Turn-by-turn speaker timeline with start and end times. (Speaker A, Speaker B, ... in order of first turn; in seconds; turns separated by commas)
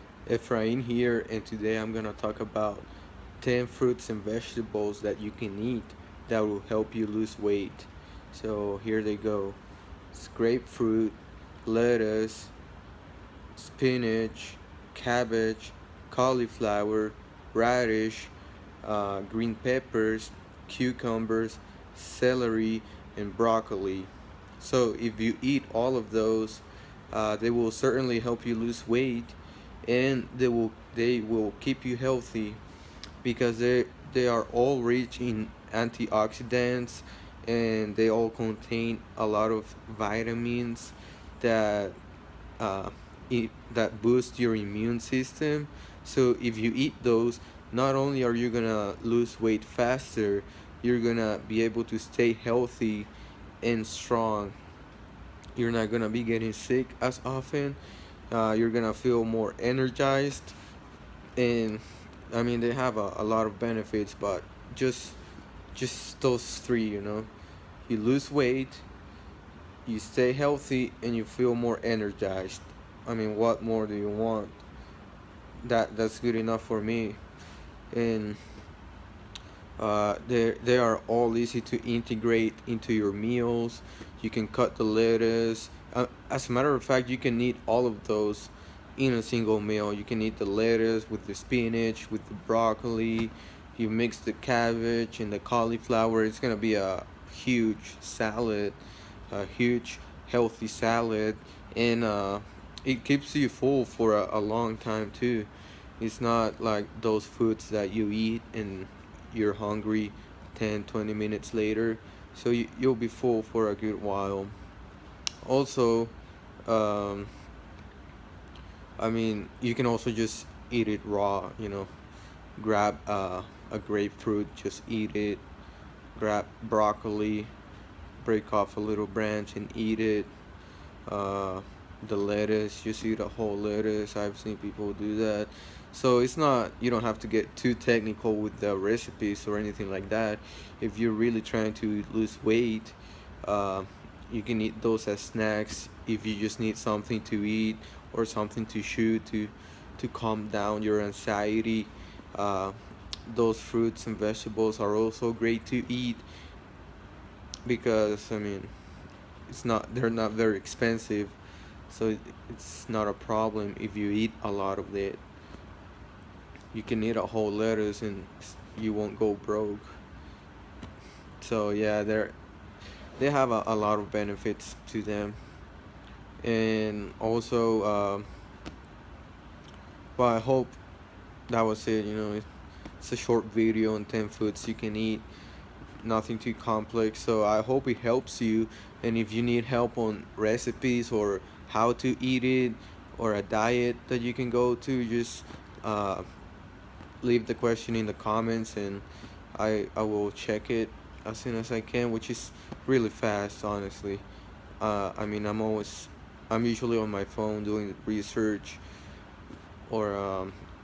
Speaker A: 0.3-2.9, Speaker A: 3.4-9.6, Speaker A: 10.1-12.5, Speaker A: 13.6-32.6, Speaker A: 33.2-42.0, Speaker A: 42.6-53.1, Speaker A: 53.6-54.5, Speaker A: 55.5-57.8, Speaker A: 58.3-60.5, Speaker A: 61.4-65.2, Speaker A: 65.7-67.3, Speaker A: 67.9-68.8, Speaker A: 69.8-74.6, Speaker A: 75.6-77.2, Speaker A: 77.9-78.4, Speaker A: 79.8-105.5, Speaker A: 106.0-114.5, Speaker A: 115.4-116.1, Speaker A: 116.7-117.3, Speaker A: 119.0-121.9, Speaker A: 122.6-125.4, Speaker A: 126.1-127.5, Speaker A: 128.2-130.3, Speaker A: 131.1-156.2, Speaker A: 157.6-158.7, Speaker A: 159.5-161.3, Speaker A: 161.9-165.2, Speaker A: 166.7-170.0, Speaker A: 171.4-172.3, Speaker A: 173.2-175.4, Speaker A: 176.4-178.2, Speaker A: 180.2-180.8, Speaker A: 181.5-182.4, Speaker A: 183.0-185.3, Speaker A: 186.0-196.2, Speaker A: 197.2-204.2, Speaker A: 204.8-208.8, Speaker A: 209.9-210.6